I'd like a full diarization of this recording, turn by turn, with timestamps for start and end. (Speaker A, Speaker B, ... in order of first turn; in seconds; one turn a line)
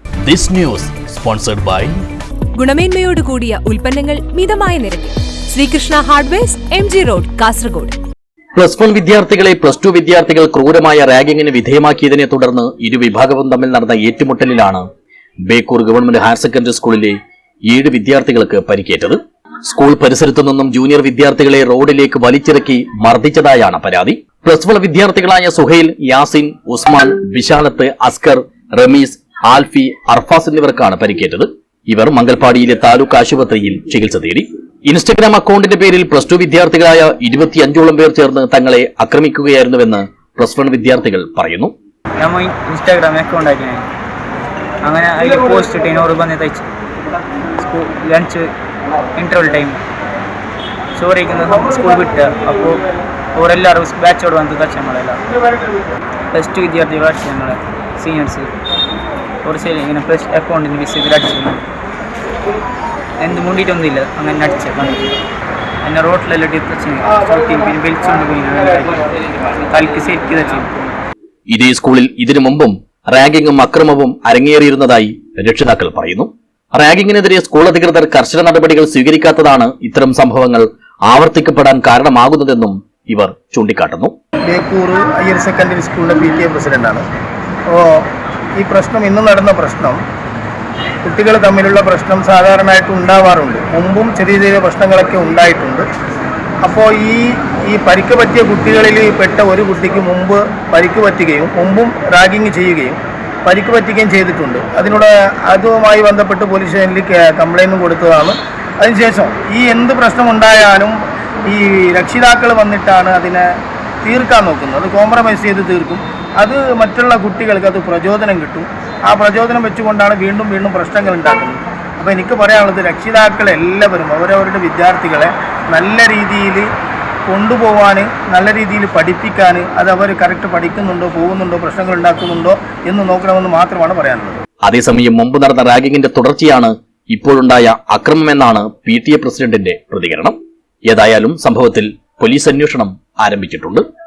Speaker A: 0.2-1.9
Speaker B: 2.5-8.0
Speaker A: 8.6-14.8
Speaker A: 15.5-17.2
Speaker A: 17.7-41.7
Speaker C: 42.2-43.9
Speaker C: 44.8-46.7
Speaker C: 47.6-48.5
Speaker C: 49.2-49.8
Speaker C: 51.0-52.8
Speaker C: 53.4-55.2
Speaker C: 56.3-58.5
Speaker C: 59.5-61.6
Speaker C: 63.2-65.1
Speaker C: 65.8-69.1
Speaker C: 69.7-70.7
Speaker A: 71.5-84.1
Speaker D: 84.5-87.0
Speaker D: 87.7-88.1
Speaker D: 88.6-90.0
Speaker D: 91.0-95.9
Speaker D: 96.6-111.0
Speaker D: 111.5-113.5
Speaker D: 114.0-126.7
Speaker D: 127.3-134.4
Speaker A: 134.6-140.4
Speaker A: 140.9-143.8